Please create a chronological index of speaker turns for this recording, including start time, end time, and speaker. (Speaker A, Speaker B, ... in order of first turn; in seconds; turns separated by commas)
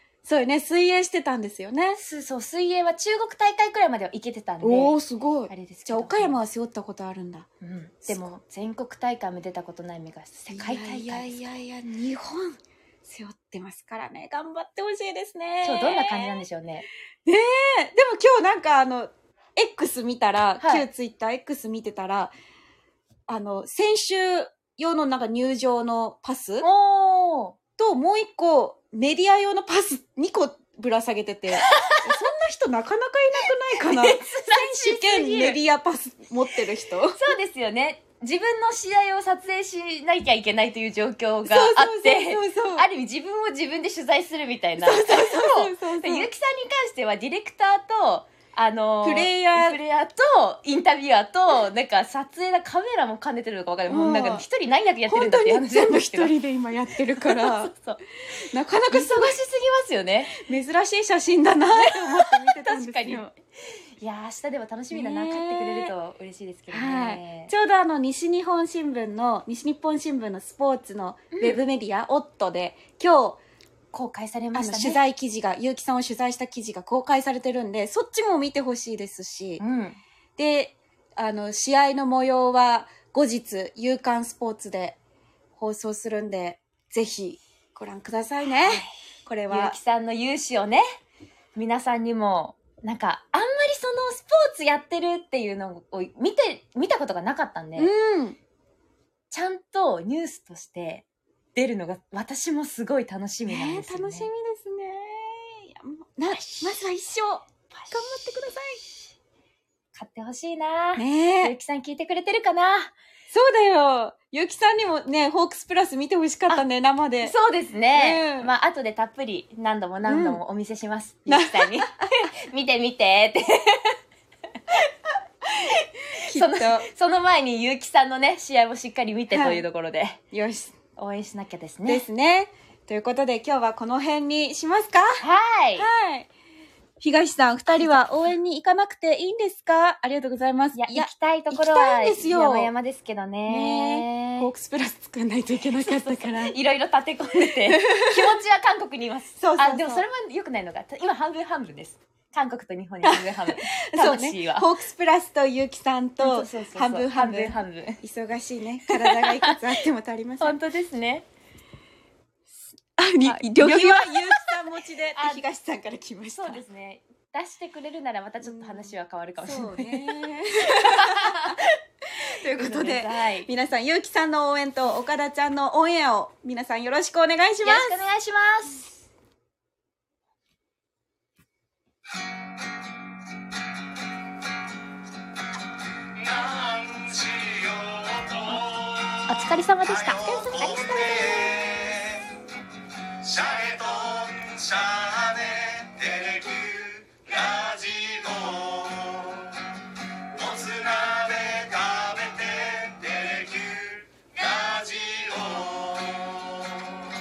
Speaker A: 0.2-2.0, Speaker B: 2.0-4.9, Speaker A: 4.6-7.5, Speaker B: 5.5-6.4, Speaker B: 7.6-11.5, Speaker A: 10.5-16.4, Speaker B: 15.6-16.9, Speaker A: 17.2-22.3, Speaker B: 20.6-20.9, Speaker A: 23.3-26.6, Speaker B: 26.6-27.6, Speaker A: 27.8-37.2, Speaker B: 31.5-32.1, Speaker B: 33.5-35.6, Speaker B: 37.1-56.3, Speaker A: 41.5-42.9, Speaker A: 44.8-46.3, Speaker A: 49.0-49.8, Speaker A: 53.9-54.4, Speaker A: 55.1-57.7, Speaker B: 57.2-58.0, Speaker A: 58.5-59.4, Speaker B: 58.9-60.4, Speaker A: 60.3-63.3, Speaker B: 61.8-63.3, Speaker B: 64.0-67.5, Speaker A: 64.9-65.9, Speaker A: 66.7-73.4, Speaker B: 71.3-71.6, Speaker B: 73.9-75.0, Speaker A: 74.5-79.6, Speaker B: 79.6-80.0, Speaker A: 80.4-85.0, Speaker A: 85.5-89.8, Speaker B: 89.5-90.8, Speaker B: 91.5-97.9, Speaker A: 97.8-98.4, Speaker B: 99.3-104.3, Speaker A: 103.5-108.8, Speaker B: 106.3-106.8, Speaker B: 109.9-112.9, Speaker A: 111.0-111.5, Speaker A: 113.3-117.3, Speaker B: 117.2-123.9, Speaker A: 117.9-118.5, Speaker A: 120.0-120.4, Speaker A: 121.3-122.1, Speaker A: 126.2-126.9, Speaker B: 126.3-130.2, Speaker A: 129.3-129.6, Speaker A: 130.3-130.7, Speaker B: 130.9-132.1, Speaker A: 131.8-135.2, Speaker B: 135.2-135.9, Speaker A: 135.8-136.3, Speaker A: 137.0-142.7, Speaker B: 137.8-138.0, Speaker B: 140.7-144.5, Speaker A: 143.4-146.5, Speaker B: 145.8-154.7, Speaker A: 147.7-148.4, Speaker A: 149.4-150.0, Speaker A: 153.0-160.6, Speaker B: 156.2-158.0, Speaker B: 158.9-159.6, Speaker B: 160.4-161.3, Speaker A: 163.0-166.6, Speaker B: 163.2-164.4, Speaker B: 165.2-165.4, Speaker B: 166.3-171.6, Speaker A: 168.4-171.6, Speaker A: 172.4-178.0, Speaker B: 172.6-173.5, Speaker B: 177.6-178.9, Speaker C: 186.3-188.4, Speaker B: 189.3-191.6, Speaker C: 190.1-192.2, Speaker C: 193.2-199.4, Speaker C: 200.3-206.2